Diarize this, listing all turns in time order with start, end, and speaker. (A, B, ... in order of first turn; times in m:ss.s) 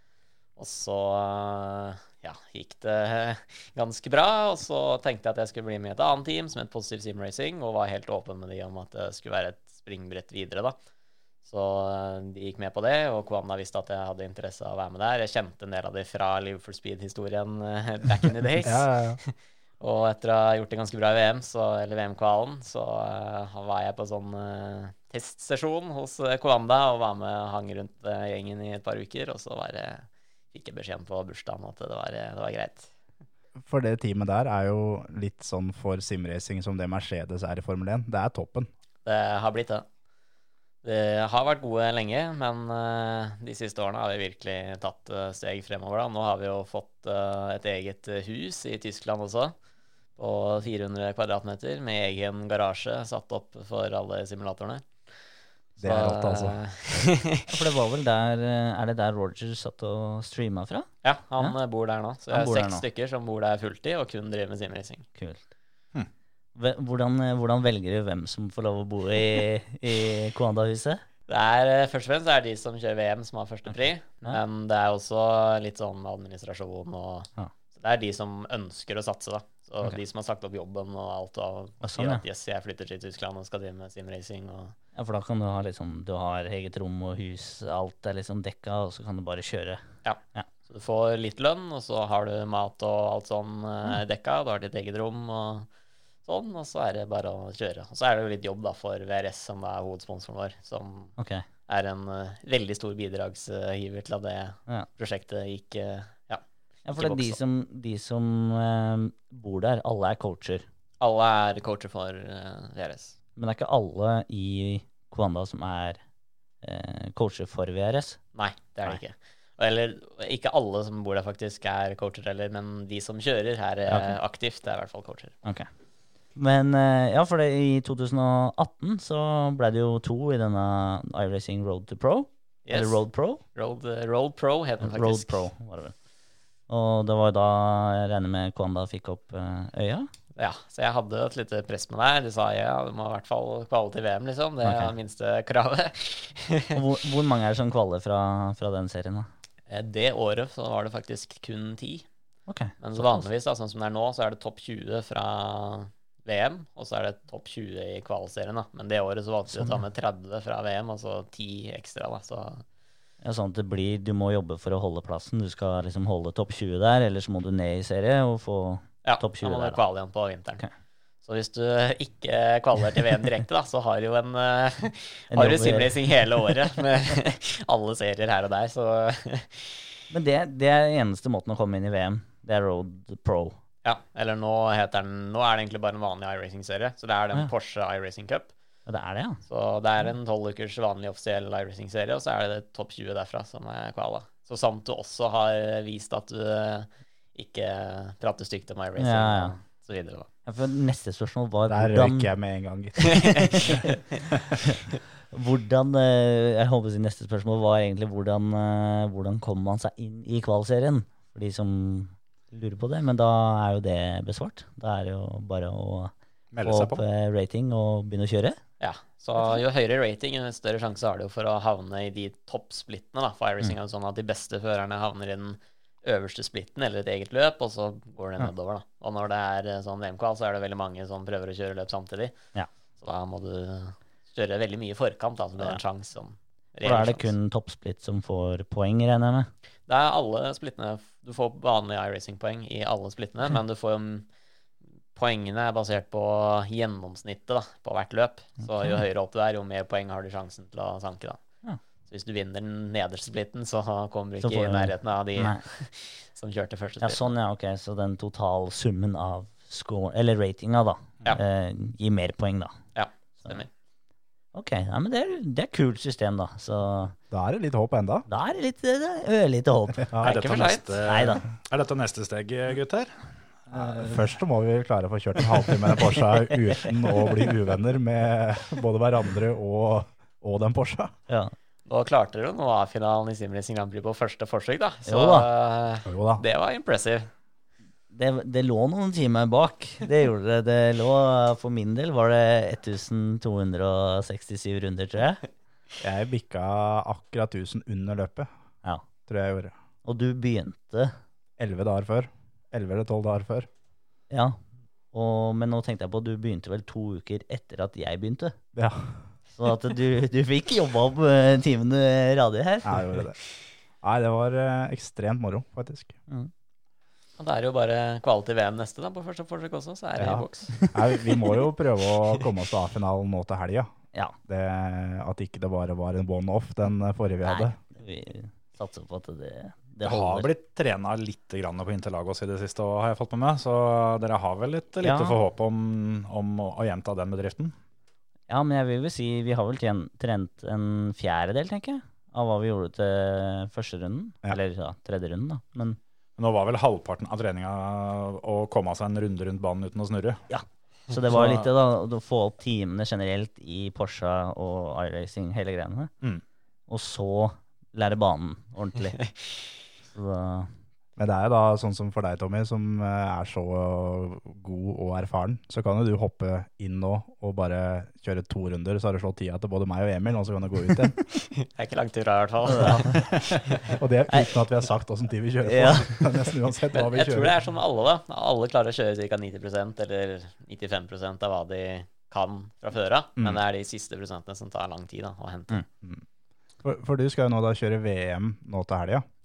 0:00.6-0:10.8 A
0:11.4-0:32.9 A
0:18.6-0:19.2 B
0:33.6-0:38.7 B
0:39.0-0:39.9 A
0:40.8-0:49.5 A
0:50.2-0:55.2 A
0:55.8-0:57.5 A
0:55.8-0:56.6 B
0:57.5-1:01.6 C
1:01.0-1:05.1 A
1:02.3-1:02.8 C
1:05.2-1:05.4 C
1:06.6-1:11.0 C
1:11.3-1:24.8 A
1:21.8-1:22.2 C
1:25.0-1:29.8 C
1:30.0-1:35.7 A
1:36.2-1:41.2 A
1:41.2-1:41.4 C
1:41.7-1:47.4 A
1:46.9-1:50.6 C
1:51.0-1:53.2 A
1:53.4-1:56.0 C
1:56.6-1:58.2 C
1:58.3-2:05.4 A
2:03.9-2:04.2 C
2:06.4-2:13.4 C
2:12.7-2:15.4 A
2:14.8-2:16.0 C
2:16.7-2:20.1 C
2:20.4-2:26.8 A
2:24.6-2:24.9 C
2:26.7-2:29.3 C
2:29.7-2:32.1 A
2:32.5-2:33.2 C
2:32.8-2:42.6 A
2:39.5-2:39.8 C
2:43.2-2:49.8 C
2:49.0-2:50.6 A
2:51.2-2:59.9 A
2:55.3-2:56.0 C
3:00.1-3:03.6 C
3:03.8-3:08.5 A
3:08.9-3:09.4 C
3:09.5-3:20.3 A
3:19.0-3:19.6 C
3:20.5-3:22.3 C
3:21.7-3:23.4 B
3:23.0-3:23.9 A
3:23.2-3:23.9 C
3:25.3-3:38.6 C
3:36.5-3:37.0 D
3:38.8-3:52.4 A
3:53.0-3:57.3 A
3:56.8-3:59.5 C
3:59.9-4:04.3 A
4:05.2-4:11.4 A
4:12.0-4:17.3 A
4:14.4-4:15.6 C
4:17.0-4:22.8 C
4:23.0-4:23.7 A
4:24.5-4:27.2 C
4:27.3-4:28.3 B
4:28.3-4:30.2 C
4:30.2-4:31.0 A
4:30.2-4:34.0 D
4:31.1-4:31.4 C
4:33.7-4:41.1 B
4:41.3-4:41.5 C
4:41.9-4:47.3 A
4:45.1-4:45.5 C
4:46.1-4:46.4 B
4:48.1-4:55.4 C
4:56.0-4:58.5 B
4:59.3-4:59.7 B
5:00.0-5:01.2 C
5:01.6-5:03.7 B
5:04.3-5:04.6 C
5:05.1-5:08.6 C
5:08.7-5:09.2 B
5:09.6-5:13.1 C
5:12.8-5:13.4 B
5:14.0-5:16.2 B
5:17.4-5:20.9 A
5:20.2-5:23.9 B
5:20.3-5:21.4 C
5:24.5-5:27.8 B
5:27.4-5:30.5 C
5:30.0-5:37.7 D
5:35.0-5:35.4 C
5:38.5-5:46.0 C
5:46.4-5:50.4 D
5:50.5-5:56.1 C
5:51.3-5:51.7 D
5:56.9-5:59.3 C
6:00.1-6:00.7 C
6:01.2-6:11.2 B
6:11.6-6:14.0 A
6:12.6-6:13.2 C
6:13.9-6:17.5 B
6:15.6-6:16.3 C
6:16.9-6:25.9 A
6:26.8-6:29.2 B